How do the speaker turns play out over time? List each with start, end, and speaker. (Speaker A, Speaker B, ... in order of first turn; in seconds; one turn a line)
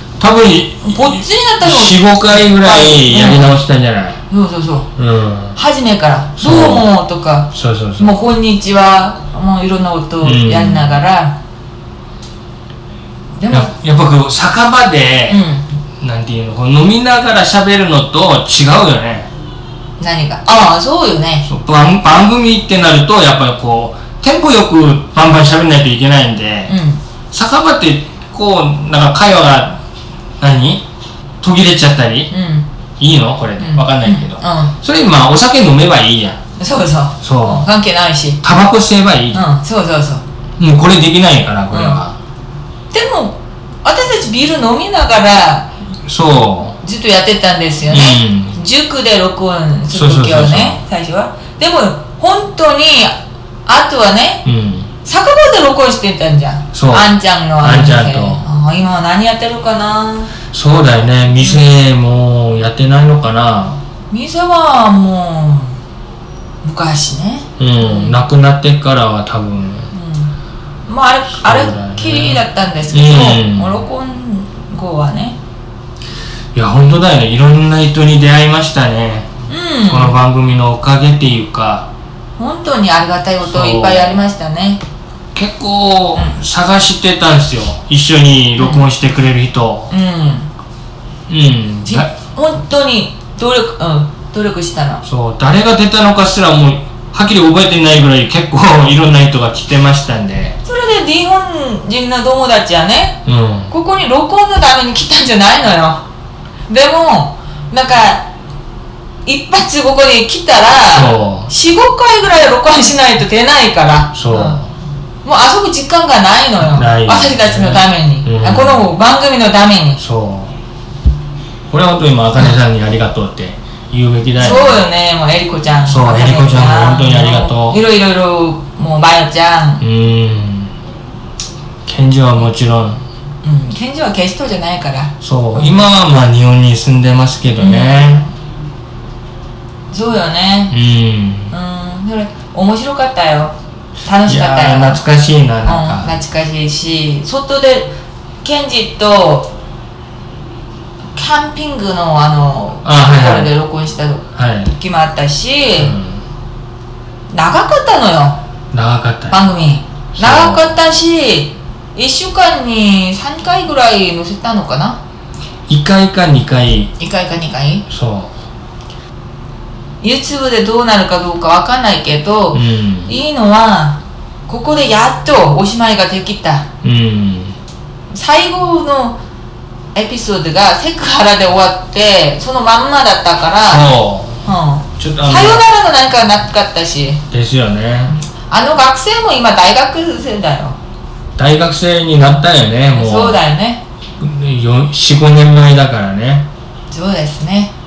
Speaker A: 0.2-4.2
Speaker B: 0.8-3.6
Speaker B: 4.3-4.9
Speaker A: 5.0-5.6
Speaker B: 5.5-11.4
Speaker A: 6.4-6.9
Speaker A: 7.5-8.1
Speaker A: 10.2-11.0
Speaker B: 13.4-13.7
Speaker A: 13.5-15.4
Speaker B: 15.3-15.7
Speaker A: 16.0-19.3
Speaker B: 20.0-21.5
Speaker A: 21.4-26.7
Speaker B: 26.7-27.0
Speaker A: 27.3-29.8
Speaker A: 30.4-30.9
Speaker A: 31.4-32.3
Speaker B: 32.3-32.7
Speaker A: 33.0-36.4
Speaker B: 33.6-34.7
Speaker B: 36.6-38.4
Speaker A: 37.2-37.7
Speaker A: 38.4-39.4
Speaker B: 39.3-40.2
Speaker A: 40.6-42.1
Speaker B: 41.7-42.0
Speaker B: 42.9-45.7
Speaker A: 46.0-46.8
Speaker B: 46.8-54.4
Speaker A: 47.9-48.6
Speaker A: 49.9-50.8
Speaker A: 54.4-54.9
Speaker B: 55.0-60.4
Speaker A: 56.7-58.4
Speaker A: 60.5-63.8
Speaker B: 64.1-65.8
Speaker B: 66.6-68.2
Speaker A: 67.6-69.9
Speaker B: 69.9-70.3
Speaker B: 70.9-75.4
Speaker A: 71.3-73.8
Speaker A: 76.5-79.3
Speaker B: 79.5-80.2
Speaker A: 79.9-81.9
Speaker B: 82.4-84.8
Speaker A: 83.4-84.2
Speaker A: 85.3-89.9
Speaker B: 88.6-88.8
Speaker B: 89.9-90.5
Speaker A: 91.3-92.1
Speaker B: 91.8-95.0
Speaker A: 95.0-100.6
Speaker B: 100.6-106.0
Speaker A: 103.2-103.7
Speaker B: 106.7-108.3
Speaker B: 109.2-114.6
Speaker A: 110.9-111.5
Speaker A: 114.1-114.7
Speaker B: 115.2-120.0
Speaker A: 116.6-118.9
Speaker A: 120.0-120.5
Speaker A: 121.7-124.8
Speaker B: 124.3-129.8
Speaker A: 125.8-127.8
Speaker A: 129.8-130.7
Speaker A: 131.8-133.0
Speaker B: 133.4-135.8
Speaker A: 135.2-138.3
Speaker B: 137.6-138.3
Speaker B: 139.9-140.8
Speaker A: 140.7-141.5
Speaker B: 141.5-145.0
Speaker A: 144.2-146.2
Speaker B: 145.6-149.5
Speaker B: 151.2-155.9
Speaker A: 152.8-153.5
Speaker A: 154.3-154.7
Speaker A: 155.8-156.2
Speaker B: 157.3-158.4
Speaker A: 158.7-159.4
Speaker B: 159.3-165.0
Speaker A: 160.2-160.8
Speaker A: 165.7-166.9
Speaker B: 167.0-167.8
Speaker A: 167.9-168.3
Speaker B: 170.0-176.7
Speaker A: 172.5-173.2
Speaker A: 176.8-177.6
Speaker B: 178.1-179.2
Speaker B: 179.9-183.9
Speaker A: 183.7-185.6
Speaker B: 184.4-187.2
Speaker A: 187.3-188.1
Speaker B: 188.1-190.8
Speaker A: 191.4-193.4
Speaker B: 192.9-193.8
Speaker A: 194.2-196.5
Speaker B: 196.9-197.7